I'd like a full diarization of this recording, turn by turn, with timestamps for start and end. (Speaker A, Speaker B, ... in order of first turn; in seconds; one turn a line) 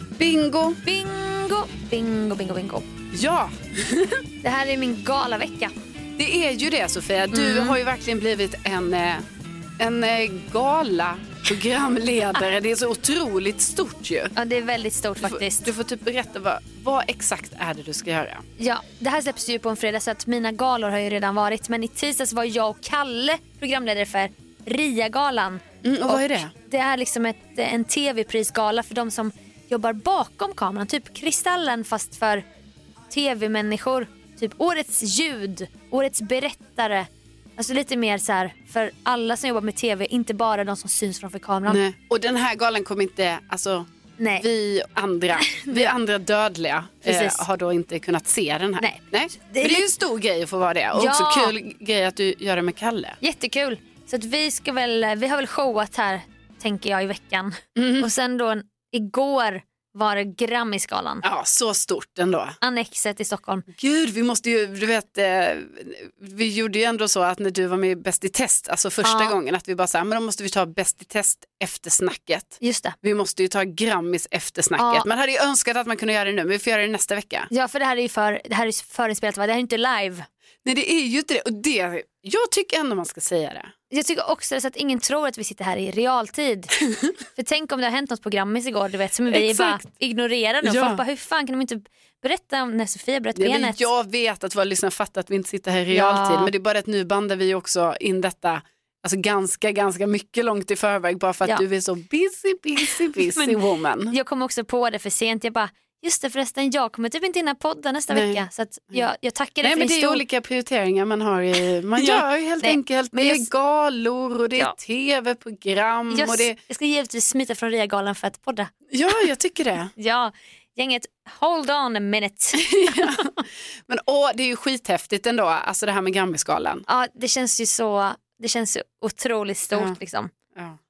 Speaker A: 0.2-0.8
Speaker B: 0.8-2.9
Speaker A: 3.1-4.2
Speaker B: 4.4-5.7
Speaker A: 6.2-9.2
Speaker B: 7.3-7.8
Speaker A: 9.8-14.3
Speaker B: 14.3-15.7
Speaker A: 15.2-18.4
Speaker B: 18.6-32.4
Speaker A: 25.8-26.5
Speaker B: 33.1-41.8
Speaker A: 41.7-53.2
Speaker B: 44.2-44.5
Speaker B: 45.4-45.9
Speaker B: 47.0-47.4
Speaker B: 48.8-49.9
Speaker B: 50.9-51.5
Speaker B: 53.2-61.2
Speaker A: 57.8-58.1
Speaker A: 61.2-62.6
Speaker B: 62.6-63.7
Speaker A: 63.7-77.5
Speaker B: 69.0-69.3
Speaker B: 72.6-72.9
Speaker B: 74.8-75.1
Speaker B: 77.5-80.2
Speaker A: 80.6-83.7
Speaker B: 83.9-86.7
Speaker B: 87.3-93.8
Speaker A: 89.3-89.8
Speaker A: 90.6-91.0
Speaker A: 93.3-104.1
Speaker B: 95.9-96.5
Speaker B: 103.3-110.2
Speaker A: 108.1-109.1
Speaker A: 109.6-116.6
Speaker B: 112.0-113.5
Speaker B: 116.1-118.7
Speaker A: 118.9-119.9
Speaker B: 120.0-123.4
Speaker A: 122.5-126.8
Speaker B: 126.9-130.3
Speaker A: 129.7-130.0